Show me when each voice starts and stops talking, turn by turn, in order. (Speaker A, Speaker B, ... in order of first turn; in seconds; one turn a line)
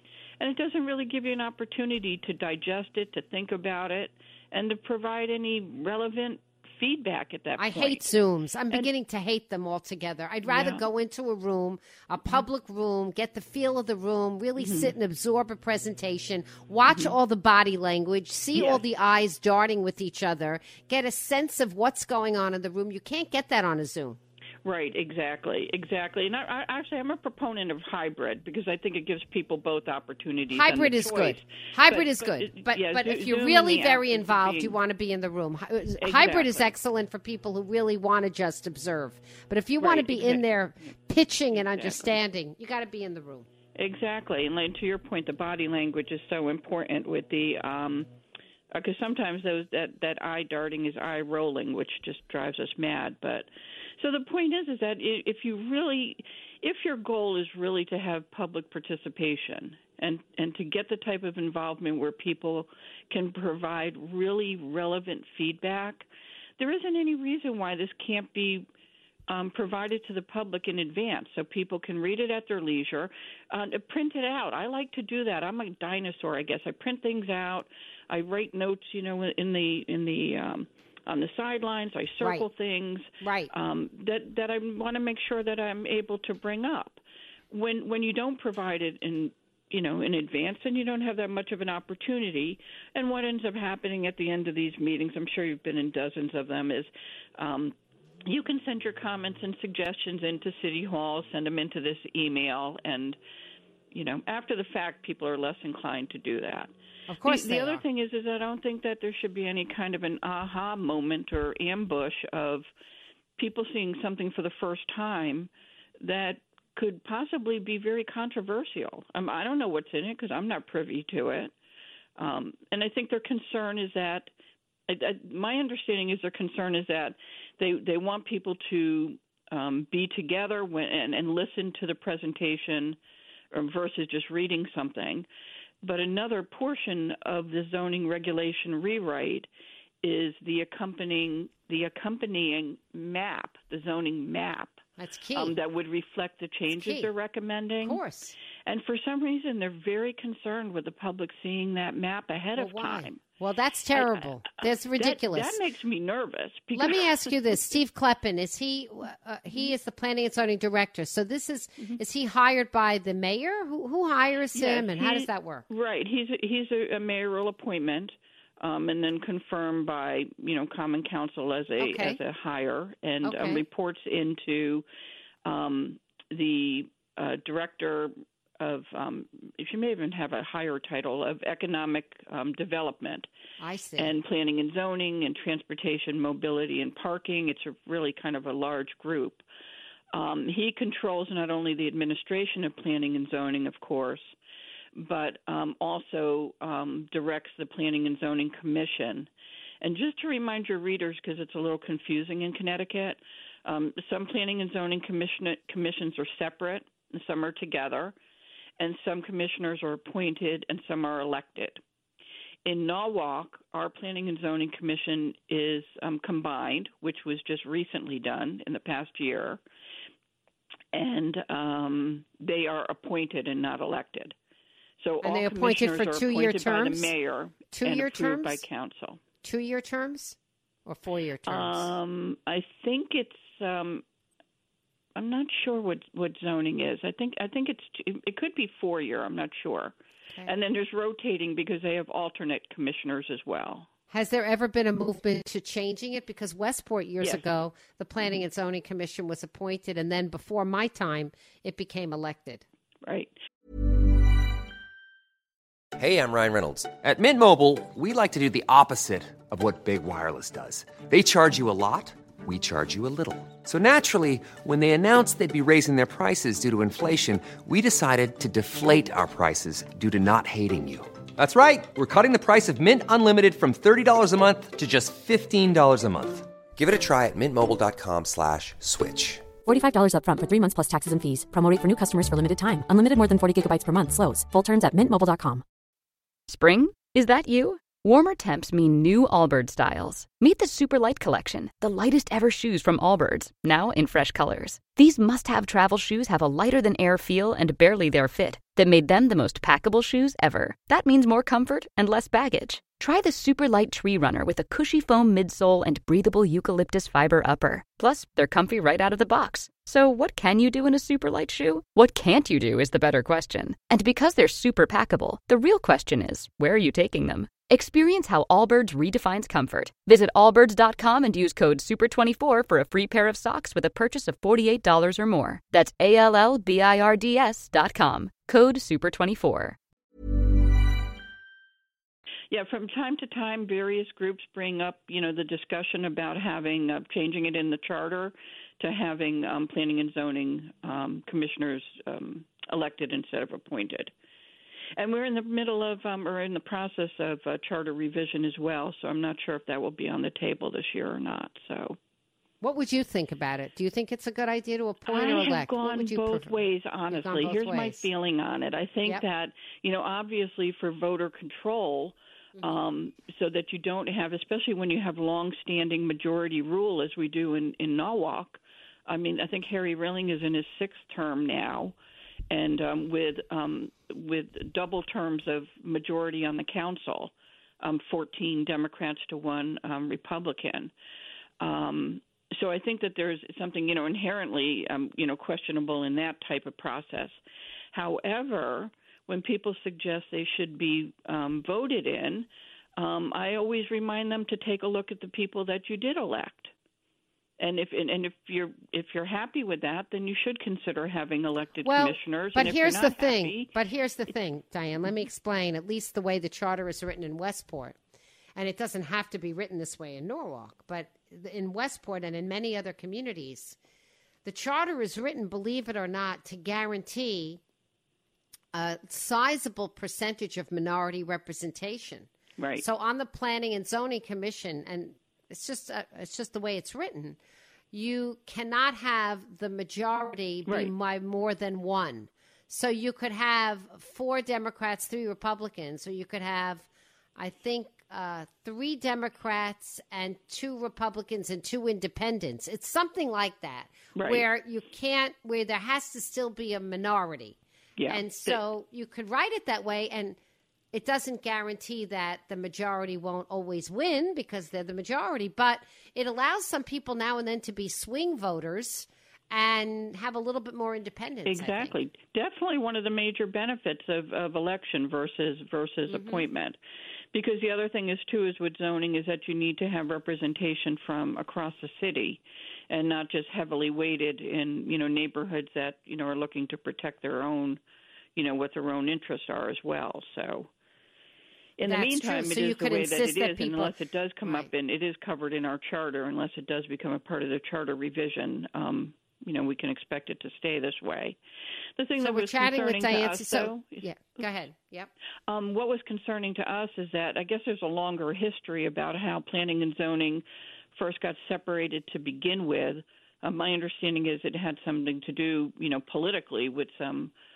Speaker A: 0.4-8.0
Speaker B: 7.6-24.2
Speaker A: 10.4-10.8
Speaker A: 14.6-14.9
Speaker A: 16.9-17.1
Speaker A: 18.5-18.8
Speaker A: 24.6-34.8
Speaker B: 30.5-43.5
Speaker A: 36.0-36.7
Speaker A: 39.8-40.4
Speaker A: 41.5-42.2
Speaker A: 43.8-48.1
Speaker A: 48.7-53.5
Speaker A: 54.0-66.1
Speaker A: 66.6-68.7
Speaker A: 69.3-97.7
Speaker B: 82.2-82.5
Speaker B: 83.2-83.5
Speaker A: 98.2-103.2
Speaker A: 103.9-106.7
Speaker B: 107.1-107.8
Speaker A: 107.2-112.7
Speaker A: 113.4-115.5
Speaker A: 116.0-121.5
Speaker A: 122.2-124.3
Speaker A: 124.9-133.0
Speaker A: 133.5-135.3
Speaker A: 135.8-139.5
Speaker A: 140.0-144.8
Speaker B: 145.0-145.5
Speaker A: 145.3-148.0
Speaker B: 146.7-147.1
Speaker B: 147.8-148.4
Speaker A: 148.6-153.2
Speaker B: 152.6-155.6
Speaker A: 153.9-154.3
Speaker A: 154.9-157.6
Speaker B: 156.7-165.7
Speaker A: 164.5-174.8
Speaker B: 171.8-172.2
Speaker B: 173.2-173.6
Speaker A: 175.4-183.3
Speaker B: 183.6-184.2
Speaker A: 184.0-189.4
Speaker A: 190.1-194.3
Speaker A: 194.9-199.3
Speaker A: 199.8-208.1
Speaker A: 208.8-211.8
Speaker A: 212.7-219.6
Speaker A: 220.9-224.3
Speaker A: 225.0-229.2
Speaker B: 225.2-227.1
Speaker B: 227.7-228.6
Speaker B: 229.4-231.9
Speaker A: 231.5-234.0
Speaker A: 235.2-239.9
Speaker A: 240.4-243.9
Speaker B: 244.1-252.6
Speaker A: 253.0-253.3
Speaker C: 256.0-279.5
Speaker D: 279.6-285.6
Speaker E: 286.9-287.1
Speaker E: 287.8-288.7
Speaker E: 290.4-291.2
Speaker E: 292.3-292.9
Speaker E: 293.6-296.5
Speaker E: 297.4-298.8
Speaker E: 300.4-304.3
Speaker E: 304.9-307.1
Speaker E: 309.2-310.4
Speaker E: 311.9-313.4
Speaker E: 315.8-318.5
Speaker E: 319.0-325.3
Speaker E: 327.7-329.4
Speaker A: 332.5-344.1
Speaker A: 345.0-352.0
Speaker B: 352.6-358.1
Speaker A: 355.1-371.9
Speaker A: 372.5-380.9
Speaker A: 381.6-387.4
Speaker A: 387.9-396.7
Speaker A: 397.6-403.7
Speaker B: 401.8-408.0
Speaker B: 408.6-413.8
Speaker B: 414.4-417.6
Speaker B: 418.7-427.4
Speaker A: 422.6-422.8
Speaker B: 427.9-450.4
Speaker A: 430.6-430.9
Speaker A: 444.1-444.4
Speaker A: 448.0-448.6
Speaker B: 450.9-461.9
Speaker A: 461.4-466.8
Speaker B: 466.1-466.4
Speaker A: 467.3-477.8
Speaker A: 478.4-480.7
Speaker A: 481.8-491.4
Speaker B: 481.8-483.9
Speaker A: 492.0-494.1
Speaker B: 492.2-495.1
Speaker A: 495.5-507.3